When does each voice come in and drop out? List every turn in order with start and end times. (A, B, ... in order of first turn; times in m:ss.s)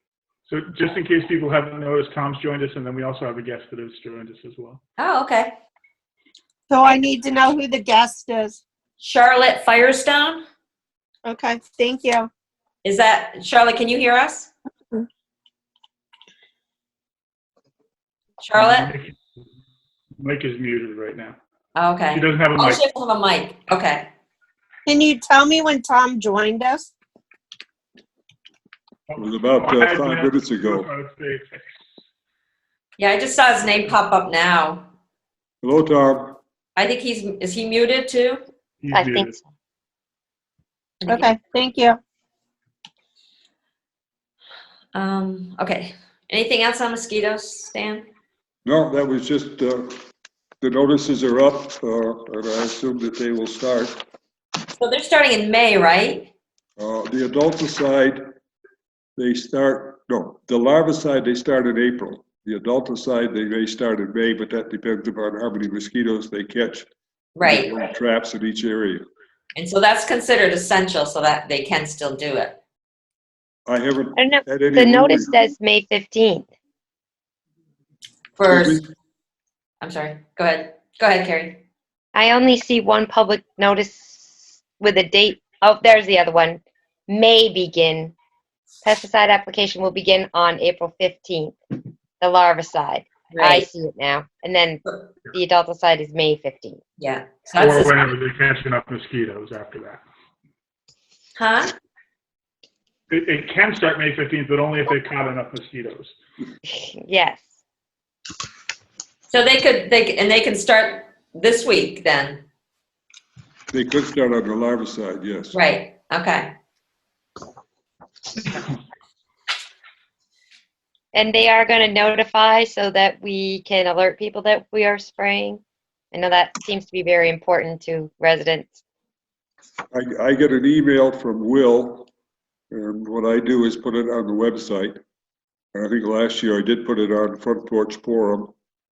0:00.5-0:04.8 A
0:05.0-0:05.5 B
0:06.7-0:08.6 C
0:09.0-0:10.4 B
0:11.2-0:12.3 C
0:12.8-0:14.5 B
0:18.4-0:18.9 B
0:18.6-0:19.2 A
0:20.2-0:21.4 A
0:21.8-0:24.1 B
0:22.1-0:22.8 A
0:24.8-0:26.9 C
0:29.1-0:31.6 A
0:29.2-0:30.9 D
0:33.0-0:34.8 B
0:35.6-0:36.4 D
0:36.8-0:38.4 B
0:38.8-0:39.4 A
0:38.9-0:39.4 E
0:41.0-0:41.3 B
0:41.0-0:42.0 C
0:44.9-0:48.1 B
0:48.6-0:49.9 D
0:50.6-0:54.0 D
0:54.8-0:56.3 B
0:56.8-0:58.2 D
0:59.2-1:06.9 D
1:07.4-1:07.7 B
1:07.4-1:09.0 D
1:09.6-1:12.6 B
1:13.7-1:15.4 D
1:14.2-1:16.5 E
1:18.4-1:18.8 B
1:18.5-1:18.9 D
1:19.8-1:21.6 B
1:22.1-1:28.2 E
1:28.8-1:36.8 E
1:33.3-1:33.7 B
1:37.0-1:37.9 B
1:37.6-1:40.0 A
1:41.4-1:41.7 B
1:43.1-1:46.1 A
1:46.6-1:47.5 E
1:49.3-1:52.4 B
1:53.7-1:55.6 D
1:55.5-1:56.5 B
2:01.1-2:08.8 E
2:09.9-2:12.1 D
2:12.7-2:15.0 D
2:15.7-2:18.5 D